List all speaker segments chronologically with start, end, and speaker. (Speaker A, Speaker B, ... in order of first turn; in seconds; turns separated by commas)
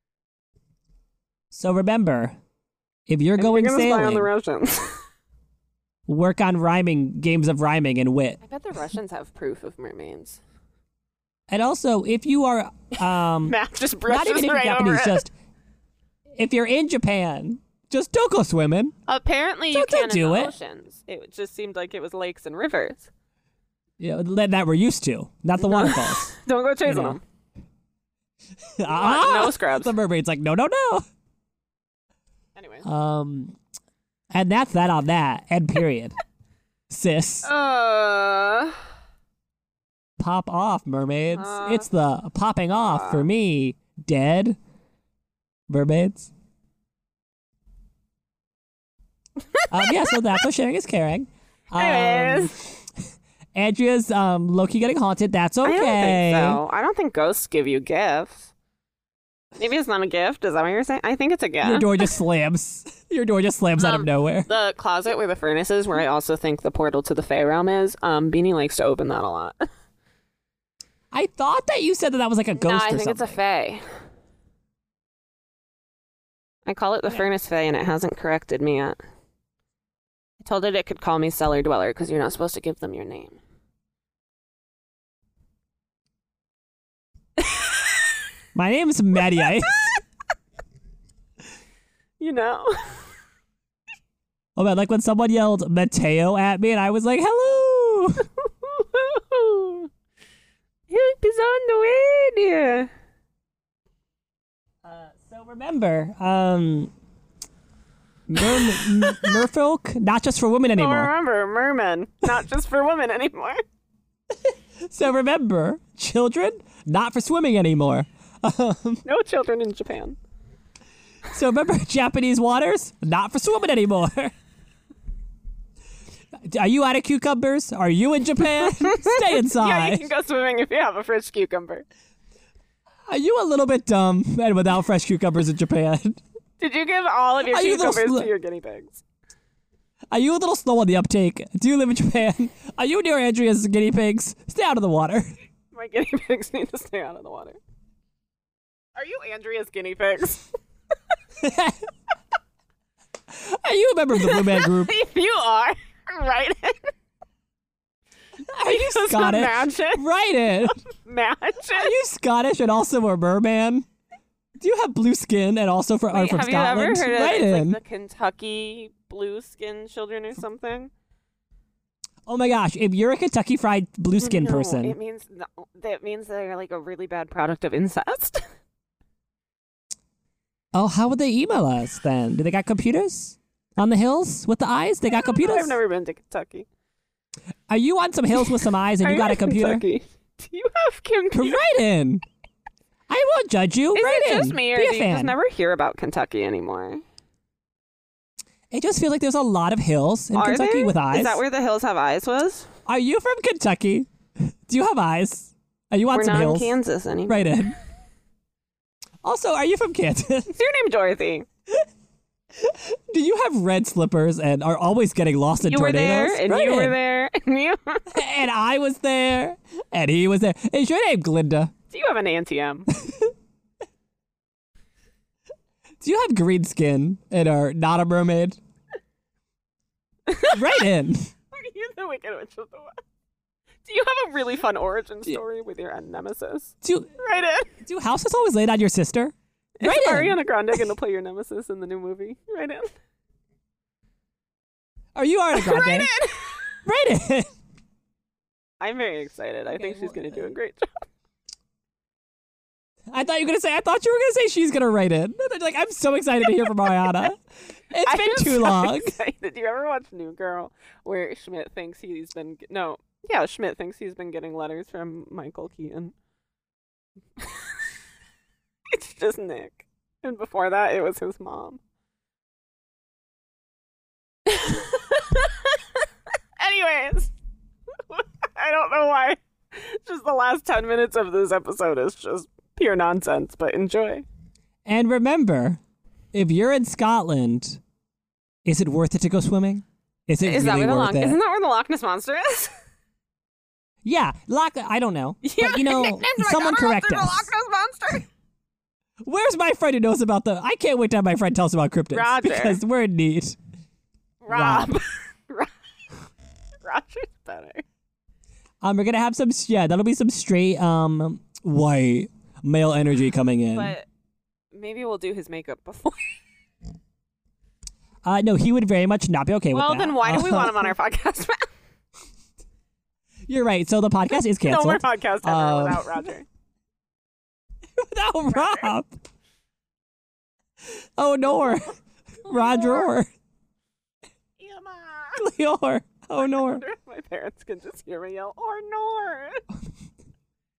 Speaker A: 1.5-2.4, Speaker A: 3.1-4.3, Speaker B: 3.4-5.0, Speaker A: 6.1-8.4, Speaker B: 8.4-10.4, Speaker A: 11.5-15.3, Speaker B: 13.4-15.3, Speaker A: 16.4-18.9, Speaker B: 19.1-23.1, Speaker A: 19.7-20.5, Speaker A: 24.0-26.3, Speaker B: 25.6-27.2, Speaker A: 26.9-27.2, Speaker A: 28.8-31.0, Speaker B: 28.9-29.9, Speaker B: 32.6-32.9, Speaker A: 32.8-33.6, Speaker A: 34.3-36.2, Speaker A: 36.9-37.5, Speaker B: 37.4-38.8, Speaker A: 40.2-44.6, Speaker B: 41.3-41.9, Speaker B: 42.8-43.2, Speaker A: 45.7-46.3, Speaker B: 49.5-50.1, Speaker A: 49.7-52.9, Speaker B: 51.8-52.6, Speaker A: 53.5-56.6, Speaker B: 55.6-58.5, Speaker B: 59.6-62.1, Speaker A: 61.6-64.5, Speaker B: 63.8-69.7, Speaker A: 71.1-73.4, Speaker B: 72.6-73.8, Speaker B: 76.7-79.0, Speaker B: 80.4-83.4, Speaker B: 87.4-87.7, Speaker A: 88.5-90.0, Speaker B: 92.2-93.1, Speaker A: 94.6-98.3, Speaker B: 98.4-99.9, Speaker B: 100.9-102.9, Speaker A: 104.8-106.9, Speaker A: 108.3-111.1, Speaker B: 108.4-109.4, Speaker B: 110.8-113.6, Speaker A: 114.5-119.0, Speaker B: 119.0-120.2, Speaker A: 121.3-124.3, Speaker A: 126.4-130.1, Speaker B: 128.6-131.8, Speaker A: 133.1-136.2, Speaker B: 136.6-139.0, Speaker A: 137.4-138.3, Speaker A: 140.1-145.3, Speaker B: 145.7-147.6, Speaker B: 149.0-150.5, Speaker A: 151.4-151.9, Speaker A: 153.3-154.9, Speaker B: 154.2-156.9, Speaker A: 158.5-160.8, Speaker B: 158.6-160.0, Speaker B: 160.6-161.9, Speaker A: 161.7-163.9, Speaker A: 164.6-167.8, Speaker B: 166.1-170.9, Speaker A: 172.3-175.0, Speaker B: 174.2-178.4, Speaker A: 180.7-185.8, Speaker B: 185.1-186.7, Speaker A: 187.7-189.8, Speaker B: 189.0-191.6, Speaker A: 191.3-192.2, Speaker A: 193.1-195.3, Speaker B: 193.9-197.0, Speaker A: 198.7-201.4, Speaker B: 200.3-202.7, Speaker A: 202.9-206.8, Speaker B: 206.1-207.6, Speaker A: 207.3-207.8, Speaker A: 209.2-210.6, Speaker B: 210.5-211.5, Speaker A: 212.6-217.0, Speaker B: 215.6-218.2, Speaker A: 218.1-221.7, Speaker B: 221.9-222.9, Speaker A: 222.9-223.3, Speaker A: 226.0-228.6, Speaker B: 230.3-230.9, Speaker A: 230.5-231.3, Speaker B: 231.5-233.0, Speaker B: 233.8-237.7, Speaker A: 236.8-237.1, Speaker A: 237.8-240.4, Speaker B: 239.8-242.9, Speaker A: 245.2-246.1, Speaker B: 245.5-246.7, Speaker A: 246.8-247.5, Speaker B: 248.8-251.1, Speaker A: 249.8-250.5, Speaker A: 253.1-259.1, Speaker B: 258.1-266.1, Speaker B: 267.4-267.8, Speaker B: 268.9-271.8, Speaker B: 274.5-277.3, Speaker B: 277.9-284.2, Speaker A: 284.9-285.8, Speaker A: 286.3-287.8, Speaker A: 288.6-291.4, Speaker B: 290.4-292.7, Speaker A: 294.0-297.5, Speaker B: 295.4-298.3, Speaker A: 299.2-303.6, Speaker B: 302.1-302.8, Speaker B: 304.4-305.7, Speaker A: 304.5-304.9, Speaker B: 306.8-307.8, Speaker A: 308.8-313.9, Speaker B: 313.7-314.1, Speaker B: 314.7-316.3, Speaker A: 318.2-320.9, Speaker B: 319.7-321.7, Speaker A: 323.5-326.3, Speaker B: 324.3-326.4, Speaker A: 328.0-329.2, Speaker B: 328.5-328.9, Speaker A: 330.9-333.3, Speaker B: 332.5-333.1, Speaker B: 334.6-335.4, Speaker A: 335.4-336.8, Speaker B: 336.4-339.6